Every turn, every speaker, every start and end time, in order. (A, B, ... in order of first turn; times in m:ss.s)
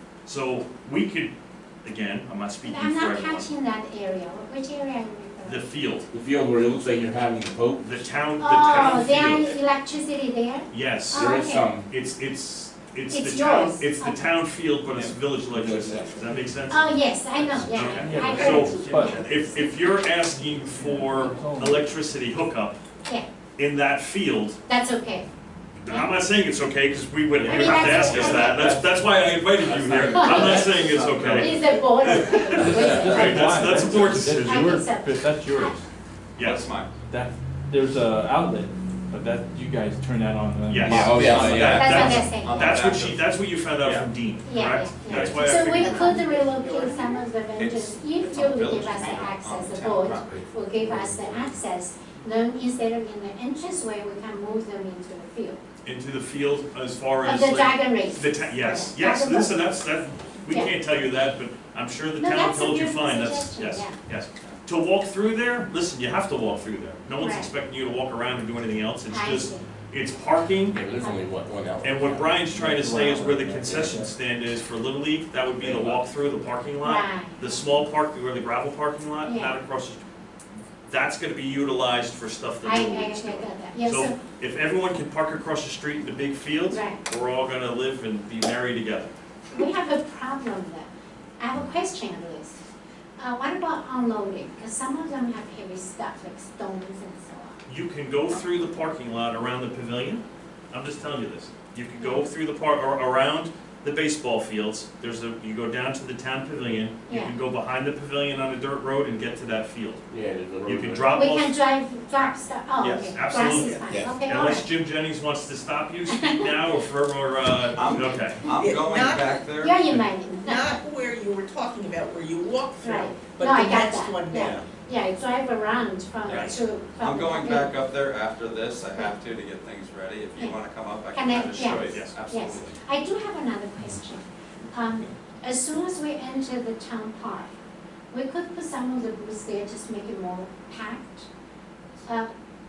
0:00.2-0:01.3 A
0:01.8-0:03.5 A
0:02.6-0:05.7 B
0:05.4-0:06.1 A
0:06.1-0:08.0 C
0:07.8-0:09.5 A
0:08.4-0:11.7 B
0:10.7-0:22.8 A
0:11.2-0:11.9 C
0:13.1-0:14.3 B
0:15.5-0:16.3 C
0:16.7-0:19.4 B
0:17.9-0:19.3 D
0:20.6-0:21.9 D
0:23.6-0:24.6 A
0:24.7-0:25.3 B
0:25.8-0:34.7 A
0:27.4-0:28.9 E
0:27.4-0:28.8 B
0:29.6-0:33.2 E
0:30.1-0:35.8 B
0:32.6-0:35.8 D
0:36.4-0:36.7 A
0:36.4-0:36.9 E
0:37.1-0:41.9 D
0:40.7-0:46.2 A
0:40.9-0:42.1 C
0:41.0-0:43.3 E
0:41.7-0:42.8 B
0:43.8-0:44.1 E
0:44.4-0:55.6 B
0:45.1-0:45.4 C
0:45.7-0:47.3 F
0:47.6-0:50.5 E
0:55.8-1:10.9 A
0:57.2-0:59.6 B
1:00.5-1:00.7 B
1:02.2-1:04.0 B
1:07.2-1:07.5 B
1:09.1-1:09.7 B
1:10.7-1:12.5 C
1:11.8-1:20.0 A
1:12.5-1:14.1 D
1:13.6-1:14.0 C
1:15.6-1:16.1 C
1:16.8-1:17.4 B
1:19.2-1:19.6 B
1:20.9-1:29.1 A
1:22.6-1:24.2 B
1:26.7-1:27.0 B
1:29.5-1:30.9 B
1:31.4-1:32.6 B
1:33.2-1:37.6 B
1:37.7-1:50.0 A
1:42.0-1:42.2 B
1:47.1-1:47.3 B
1:50.1-1:51.1 C
1:50.6-1:51.6 A
1:51.1-1:54.7 B
1:52.2-1:58.5 A
1:52.8-1:53.8 E
1:56.1-1:56.5 B
1:57.8-1:59.8 E
1:58.5-1:59.4 F
1:59.6-2:00.8 B
2:00.4-2:04.6 F
2:02.8-2:07.7 B
2:04.4-2:04.7 E
2:06.3-2:06.6 A
2:06.3-2:12.8 E
2:11.1-2:17.5 B
2:11.9-2:12.1 A
2:18.1-2:21.3 B